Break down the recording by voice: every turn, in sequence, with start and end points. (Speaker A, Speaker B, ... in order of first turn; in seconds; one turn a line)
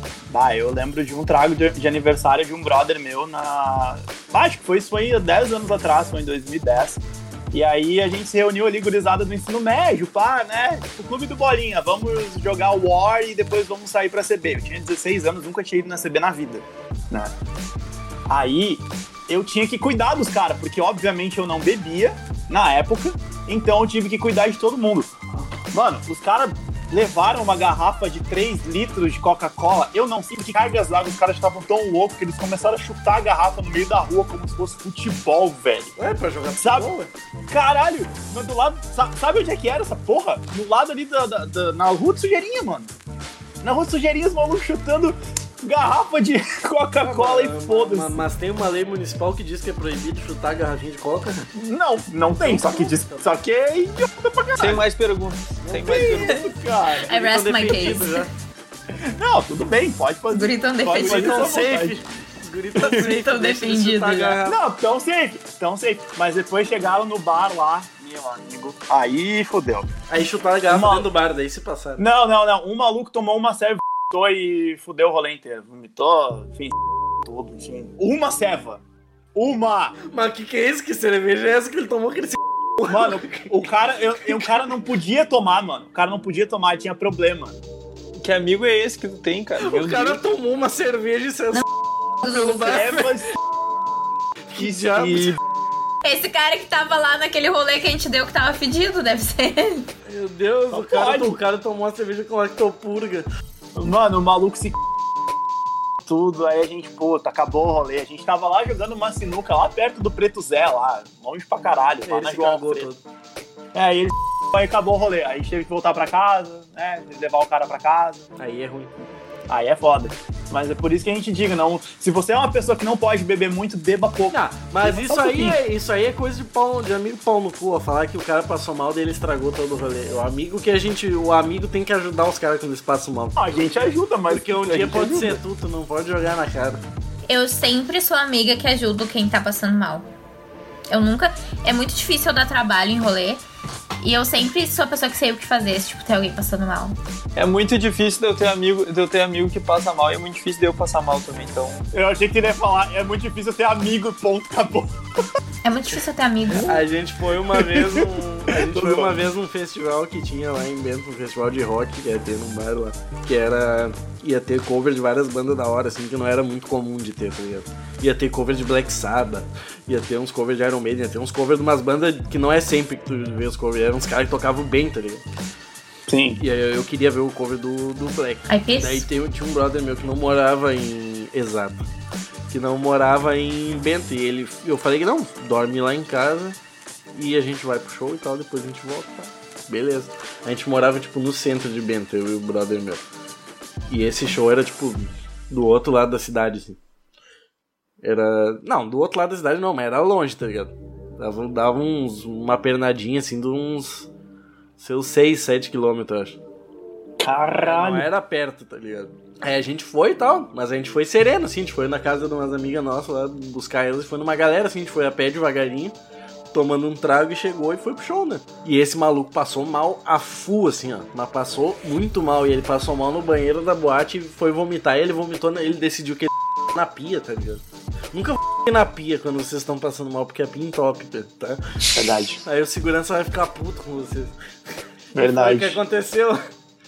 Speaker A: 0.3-17.3
Speaker A: 18.3-25.1
Speaker A: 25.7-36.0
Speaker B: 36.0-37.1
Speaker A: 36.6-36.9
Speaker A: 37.5-42.9
Speaker A: 43.6-48.2
Speaker B: 47.0-51.4
Speaker A: 51.5-54.9
Speaker B: 52.3-53.3
Speaker C: 54.6-56.4
Speaker B: 55.6-56.3
Speaker A: 55.9-57.1
Speaker D: 56.1-56.5
Speaker D: 57.1-58.3
Speaker B: 57.1-58.3
Speaker A: 59.0-62.0
Speaker D: 60.3-61.5
Speaker B: 60.9-64.6
Speaker A: 62.8-63.1
Speaker D: 62.9-64.4
Speaker A: 64.5-69.9
Speaker B: 70.1-72.0
Speaker A: 70.7-71.1
Speaker A: 72.0-78.8
Speaker A: 79.3-80.0
Speaker B: 80.1-83.5
Speaker A: 82.9-87.6
Speaker B: 84.3-84.6
Speaker C: 88.2-90.2
Speaker B: 89.6-91.6
Speaker D: 92.2-92.8
Speaker B: 92.2-93.1
Speaker A: 92.5-93.4
Speaker B: 94.5-95.4
Speaker A: 94.6-95.4
Speaker D: 96.0-99.9
Speaker B: 100.1-103.3
Speaker A: 100.7-101.4
Speaker A: 103.8-104.8
Speaker A: 106.0-112.9
Speaker B: 112.0-113.0
Speaker A: 113.7-118.3
Speaker B: 118.4-118.9
Speaker A: 119.5-125.6
Speaker B: 124.3-136.8
Speaker A: 133.4-135.4
Speaker D: 137.3-140.1
Speaker D: 140.9-143.4
Speaker D: 144.0-147.0
Speaker C: 147.4-151.9
Speaker A: 151.9-155.0
Speaker D: 155.6-156.8
Speaker B: 156.7-175.2
Speaker A: 157.5-159.2
Speaker A: 176.1-176.4
Speaker B: 176.4-181.8
Speaker D: 178.5-179.1
Speaker B: 182.5-186.6
Speaker B: 187.1-193.0
Speaker B: 193.9-196.8
Speaker B: 198.0-204.1
Speaker B: 204.8-206.4
Speaker A: 207.2-208.1
Speaker B: 207.6-216.0
Speaker B: 216.5-231.9
Speaker A: 231.9-232.4
Speaker B: 232.4-234.3
Speaker A: 235.2-235.8
Speaker B: 235.2-236.4